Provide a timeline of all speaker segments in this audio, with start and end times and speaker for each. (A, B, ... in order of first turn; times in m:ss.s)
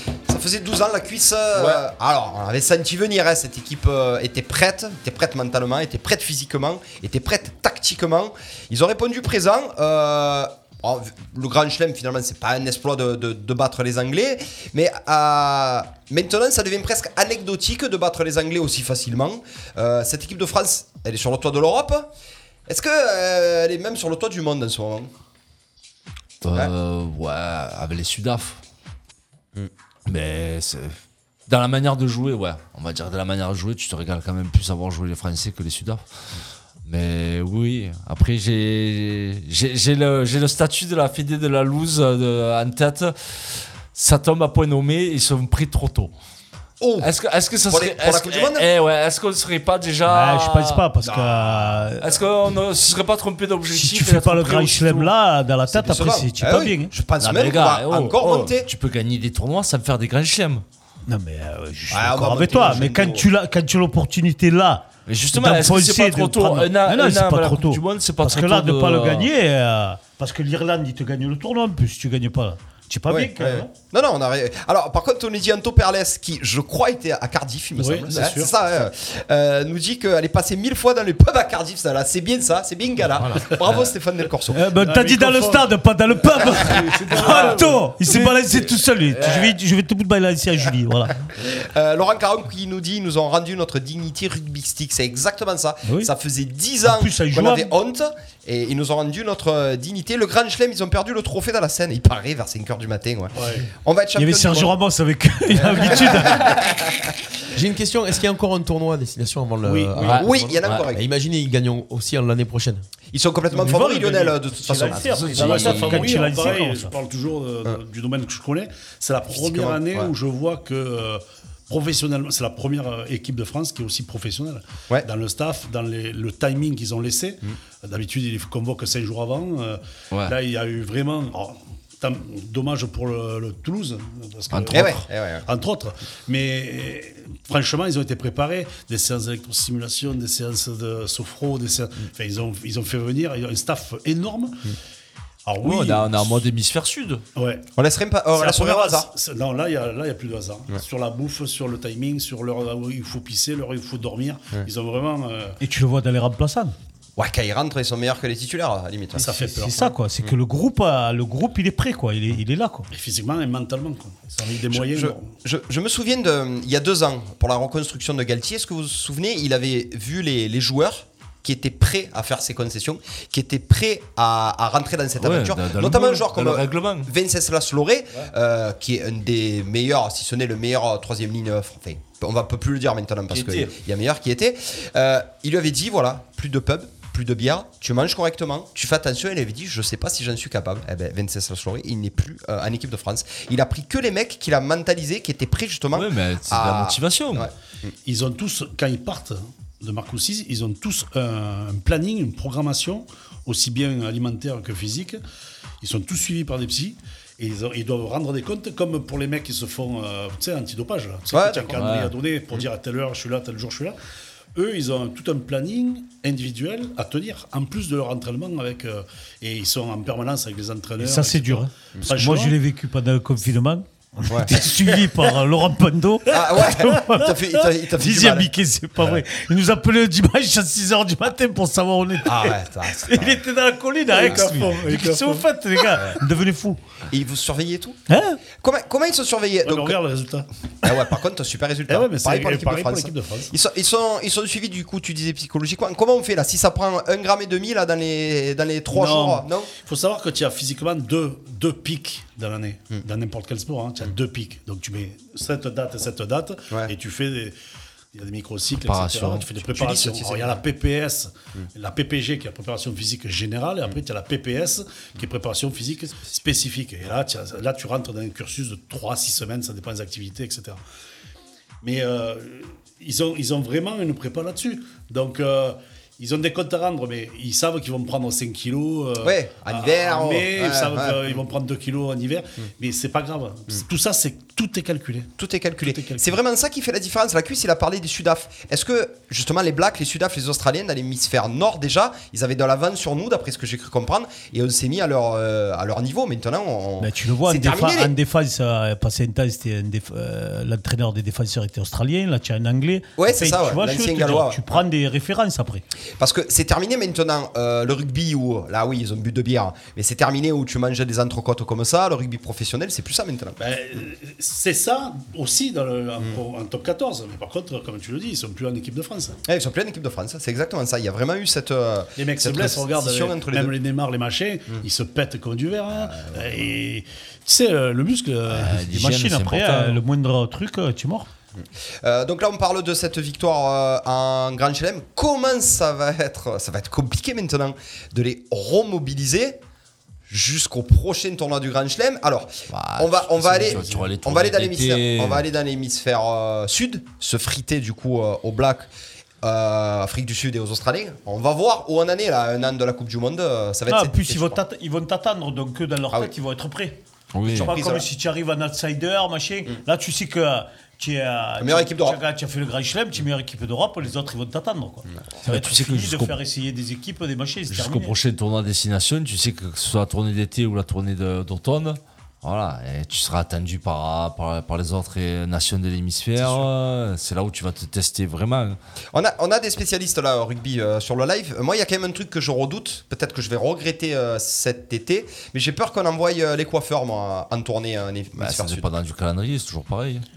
0:00.3-0:22.1 A
0:22.7-0:25.1 A
0:26.4-0:28.6 B
0:30.1-0:31.0 B
0:31.5-0:36.0 B
0:36.8-0:46.1 B
0:46.8-0:47.1 A
0:47.0-0:50.8 B
0:47.7-0:48.7 A
0:50.1-0:52.2 C
0:51.0-0:51.8 A
0:52.0-0:55.1 B
0:53.7-0:56.9 C
0:55.7-0:58.7 A
0:57.2-1:00.6 B
1:01.1-1:13.7 C
1:01.9-1:03.3 A
1:05.1-1:09.3 B
1:13.1-1:24.7 A
1:17.8-1:18.5 D
1:24.5-1:31.2 C
1:24.7-1:25.7 D
1:26.3-1:28.2 D
1:26.6-1:27.4 A
1:28.1-1:29.6 B
1:31.4-1:44.7 A
1:36.8-1:37.7 C
1:43.3-1:43.7 D
1:44.2-1:46.6 C
1:45.5-1:47.1 A
1:46.3-1:46.6 B
1:47.5-1:52.8 E
1:49.7-1:50.2 C
1:50.0-1:50.8 B
1:50.2-1:51.0 A
1:53.1-1:55.8 A
1:53.5-1:56.9 C
1:54.9-1:56.2 B
1:55.3-2:24.7 D
1:59.3-2:00.1 A
2:14.5-2:15.0 B
2:14.7-2:15.4 A
2:25.4-2:26.4 D
2:25.6-2:27.2 B
2:27.4-2:27.6 D
2:27.8-2:29.1 A
2:28.3-2:35.6 D
2:35.6-2:36.7 C
2:37.2-2:39.3 A
2:39.1-2:40.0 D
2:39.3-2:42.9 C
2:42.9-2:45.2 D
2:44.7-3:17.5 A
2:55.2-2:57.1 B
3:03.3-3:03.8 B
3:15.9-3:17.5 B
3:18.0-3:25.2 D
3:25.8-3:34.0 D
3:31.3-3:31.8 A
3:31.7-3:32.1 B
3:34.5-3:42.6 D
3:41.0-3:56.8 C
3:44.3-3:45.2 A
3:46.3-3:49.2 A
3:52.2-3:53.4 A
3:54.1-3:55.4 D
3:54.2-3:54.7 A
3:55.9-3:56.2 A
3:57.1-4:00.0 A
3:58.1-3:58.4 C
3:59.6-4:00.5 D
4:00.8-4:09.7 A
4:01.9-4:03.5 D
4:08.9-4:17.6 D
4:18.1-4:30.8 D
4:18.8-4:19.5 B
4:19.6-4:20.6 A
4:31.8-4:45.3 D
4:39.2-4:41.4 A
4:45.4-4:58.1 A
4:45.8-4:46.3 D
4:57.0-5:05.8 C
5:03.2-5:04.8 A
5:06.2-5:13.6 A
5:13.6-5:19.4 D
5:19.5-5:23.7 A
5:22.2-5:28.8 D
5:25.9-5:26.6 A
5:28.5-5:30.0 B
5:28.9-5:31.3 C
5:31.6-5:39.6 A
5:40.3-5:48.9 A
5:42.7-5:45.4 B
5:43.7-5:44.0 D
5:49.4-5:54.6 A
5:53.9-5:57.0 C
5:57.3-5:57.7 B
5:57.5-5:58.0 A
5:57.5-6:08.2 C
6:01.6-6:02.2 A
6:05.4-6:06.4 B
6:07.7-6:18.8 B
6:19.1-6:28.9 A
6:28.4-6:30.2 B